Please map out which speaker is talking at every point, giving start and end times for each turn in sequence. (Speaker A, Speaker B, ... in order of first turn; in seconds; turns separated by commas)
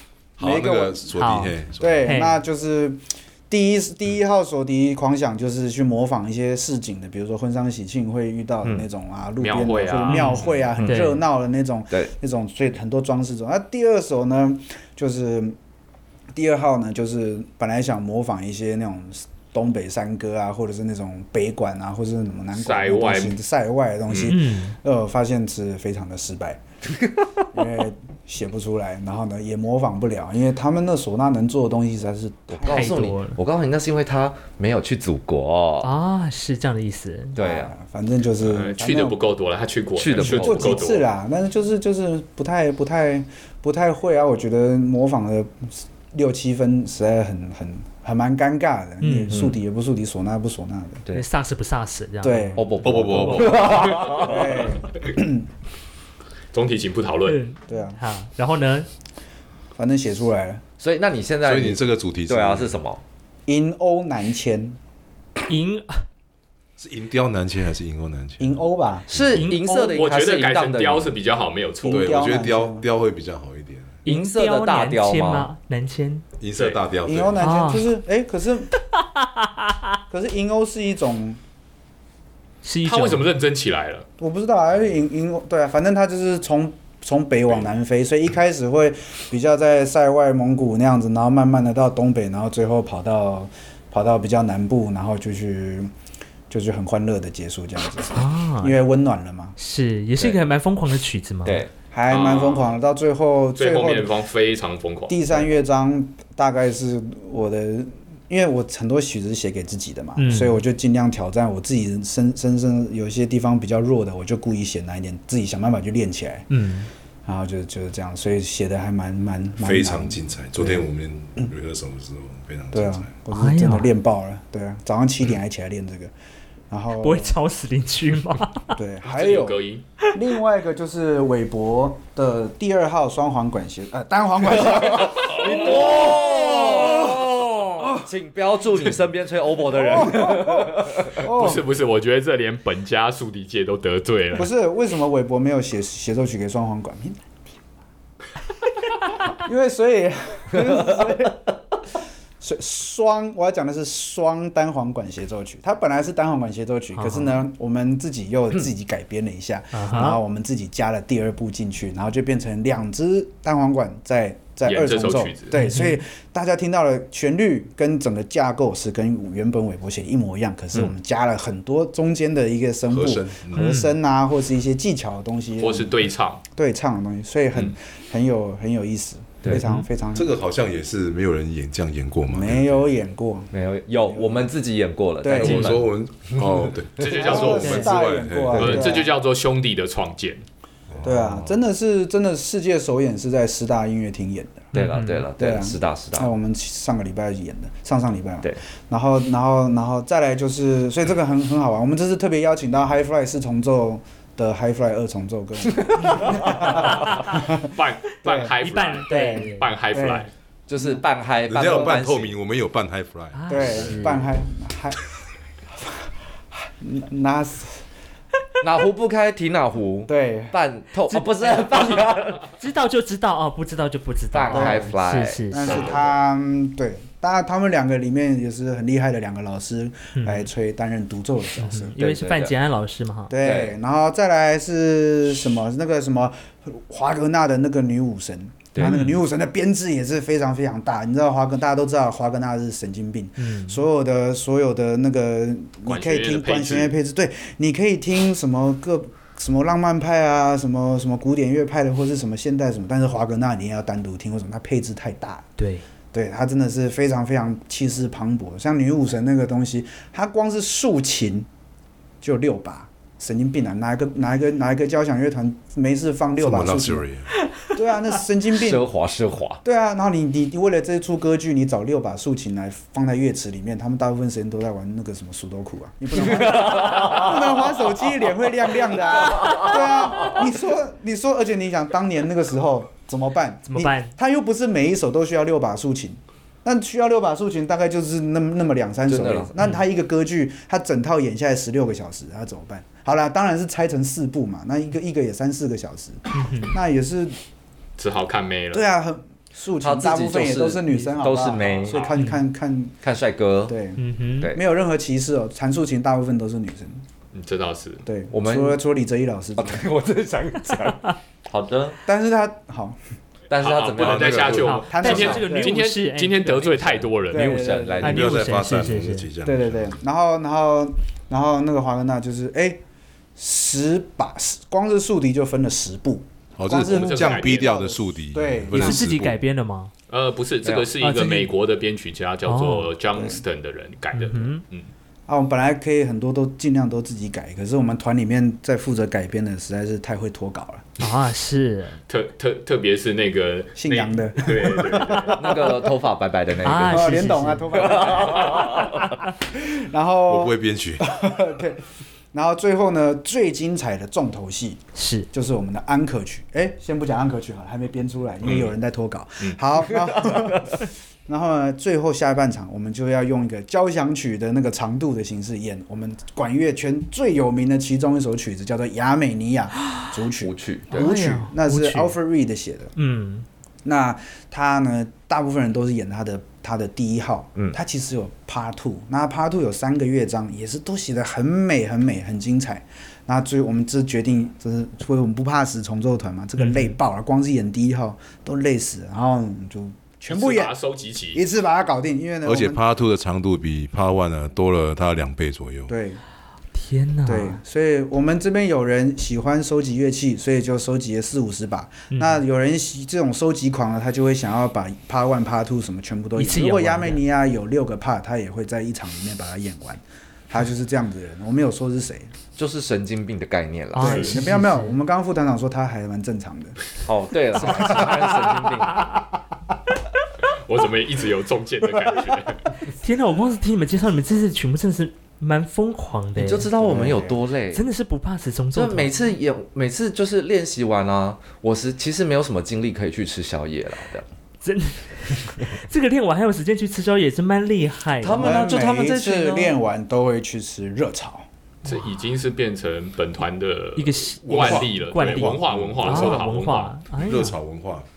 Speaker A: 0.4-2.1, Speaker B: 0.4-1.1, Speaker C: 1.1-2.4, Speaker B: 1.8-15.6, Speaker D: 9.4-10.6, Speaker C: 10.1-11.2, Speaker E: 10.8-11.1, Speaker B: 16.3-26.6, Speaker D: 22.5-23.4, Speaker D: 24.1-24.4, Speaker C: 24.3-24.8, Speaker B: 27.5-33.1, Speaker E: 32.5-35.9, Speaker C: 32.7-33.4, Speaker C: 35.8-37.4, Speaker E: 37.4-37.7, Speaker B: 37.4-39.2, Speaker D: 38.4-41.1, Speaker E: 40.0-40.8, Speaker B: 40.1-51.1, Speaker C: 49.0-49.4, Speaker E: 49.3-49.6, Speaker C: 51.1-53.6, Speaker B: 52.2-53.1, Speaker E: 52.6-54.7, Speaker A: 52.8-54.0, Speaker B: 53.7-55.5, Speaker D: 56.5-57.4, Speaker C: 57.3-58.9, Speaker B: 57.7-58.0, Speaker B: 59.8-60.6, Speaker E: 60.8-63.0, Speaker A: 61.4-62.8, Speaker B: 63.5-64.8, Speaker C: 65.5-66.0, Speaker A: 66.8-68.5, Speaker B: 68.4-69.5, Speaker E: 69.1-71.1, Speaker C: 69.3-69.7, Speaker D: 69.6-72.1, Speaker B: 71.8-72.8, Speaker A: 71.9-74.0, Speaker C: 74.0-76.2, Speaker E: 74.0-75.5, Speaker A: 76.4-77.5, Speaker B: 77.0-78.7, Speaker C: 77.4-77.9, Speaker C: 78.9-79.8, Speaker B: 80.1-81.4, Speaker C: 82.6-83.3, Speaker D: 82.8-84.1, Speaker B: 84.2-95.9, Speaker B: 96.5-99.6, Speaker C: 98.1-98.8, Speaker C: 99.6-101.6, Speaker E: 101.5-101.7, Speaker B: 101.9-104.1, Speaker D: 102.1-102.7, Speaker D: 103.5-105.5, Speaker B: 105.1-116.5, Speaker C: 110.2-110.6, Speaker C: 116.5-116.9, Speaker B: 117.3-120.9, Speaker A: 119.6-123.1, Speaker B: 122.7-126.1, Speaker C: 123.3-123.9, Speaker B: 126.7-127.4, Speaker C: 127.0-128.7, Speaker B: 128.7-129.6, Speaker D: 129.0-129.8, Speaker B: 130.1-137.2, Speaker E: 134.6-141.2, Speaker B: 139.7-141.7, Speaker D: 141.2-144.5, Speaker B: 144.3-147.2, Speaker B: 149.2-151.4, Speaker E: 150.6-151.0, Speaker B: 152.4-175.9, Speaker C: 156.9-157.4, Speaker C: 159.7-160.2, Speaker D: 164.7-165.6, Speaker C: 165.6-166.0, Speaker A: 172.9-173.7, Speaker C: 173.6-173.9, Speaker D: 175.6-176.4, Speaker B: 176.5-180.3, Speaker C: 179.5-179.9, Speaker A: 180.1-182.8, Speaker B: 182.3-183.5, Speaker E: 183.5-187.5, Speaker B: 184.1-184.5, Speaker B: 185.2-185.7, Speaker A: 185.3-188.8, Speaker D: 187.0-187.9, Speaker B: 187.1-189.1, Speaker C: 187.6-187.9, Speaker E: 188.5-189.0, Speaker D: 188.5-190.4, Speaker E: 190.9-191.6, Speaker B: 191.0-194.8, Speaker C: 194.7-195.3, Speaker E: 194.7-196.3, Speaker B: 195.4-207.7, Speaker E: 205.7-207.2, Speaker D: 206.8-210.3, Speaker B: 208.2-208.5, Speaker C: 208.6-209.7, Speaker B: 209.1-211.0, Speaker E: 210.7-212.4, Speaker A: 211.5-214.0, Speaker C: 213.3-214.3, Speaker B: 213.5-215.1, Speaker B: 215.7-217.8, Speaker E: 218.6-222.5, Speaker B: 220.1-220.5, Speaker C: 221.1-225.8, Speaker E: 224.3-226.0, Speaker B: 224.5-224.9, Speaker B: 225.5-231.9, Speaker D: 225.7-226.0, Speaker C: 230.2-230.5, Speaker C: 231.6-233.3, Speaker E: 232.0-232.6, Speaker B: 233.3-255.5, Speaker E: 233.4-233.8, Speaker C: 238.8-239.2, Speaker C: 243.4-243.8, Speaker D: 245.9-246.9, Speaker C: 255.6-255.8, Speaker B: 256.1-261.5, Speaker B: 262.2-267.1, Speaker A: 266.4-267.3, Speaker B: 267.6-268.9, Speaker E: 268.5-269.6, Speaker B: 269.6-297.4, Speaker E: 276.3-277.3, Speaker E: 279.2-279.7, Speaker C: 283.7-284.1, Speaker E: 289.1-289.5, Speaker C: 296.3-296.8, Speaker D: 298.0-298.9, Speaker B: 298.7-303.0, Speaker E: 299.8-302.1, Speaker C: 302.1-302.4, Speaker E: 303.0-303.8, Speaker B: 303.7-307.0, Speaker C: 304.0-304.5, Speaker D: 307.3-308.0, Speaker B: 308.1-309.8, Speaker E: 308.3-308.8, Speaker E: 309.6-312.0, Speaker B: 312.1-313.0, Speaker E: 313.5-314.6, Speaker D: 313.6-317.6, Speaker A: 313.9-315.4, Speaker C: 314.5-317.1, Speaker B: 314.9-315.8, Speaker E: 317.2-318.4, Speaker B: 317.3-318.3, Speaker C: 318.0-319.3, Speaker A: 318.0-319.9, Speaker B: 319.4-322.8, Speaker B: 323.4-329.1, Speaker A: 326.6-329.4, Speaker D: 326.8-327.8, Speaker C: 328.7-329.9, Speaker D: 330.1-334.9, Speaker E: 330.6-330.9, Speaker C: 331.0-331.5, Speaker C: 332.5-332.9, Speaker B: 333.2-333.4, Speaker C: 334.1-334.6, Speaker B: 335.3-340.9, Speaker C: 341.0-342.0, Speaker D: 342.1-345.7, Speaker B: 343.8-345.8, Speaker E: 345.3-349.1, Speaker C: 346.6-347.8, Speaker B: 346.8-348.9, Speaker B: 349.5-372.9, Speaker A: 350.3-351.1, Speaker C: 354.9-355.3, Speaker D: 358.4-358.7, Speaker E: 370.4-371.1, Speaker C: 370.9-372.2, Speaker C: 373.0-373.5, Speaker B: 373.9-390.7, Speaker C: 386.6-386.9, Speaker D: 390.3-391.4, Speaker B: 391.3-392.8, Speaker A: 392.4-395.9, Speaker B: 395.9-396.2, Speaker C: 396.7-397.6, Speaker B: 397.3-412.3, Speaker C: 402.1-402.4, Speaker C: 406.4-407.2, Speaker E: 412.6-414.3, Speaker C: 413.9-415.0, Speaker B: 414.0-416.8, Speaker E: 417.1-419.1, Speaker B: 417.6-418.3, Speaker C: 417.6-418.5, Speaker D: 420.5-422.8, Speaker C: 422.9-426.7, Speaker E: 426.4-427.9, Speaker B: 426.8-427.4, Speaker C: 427.7-429.2, Speaker E: 428.7-434.3, Speaker C: 434.6-438.7, Speaker E: 438.2-439.8, Speaker B: 438.4-441.5, Speaker D: 441.9-446.9, Speaker C: 444.0-447.6, Speaker A: 444.4-446.4, Speaker A: 447.1-448.1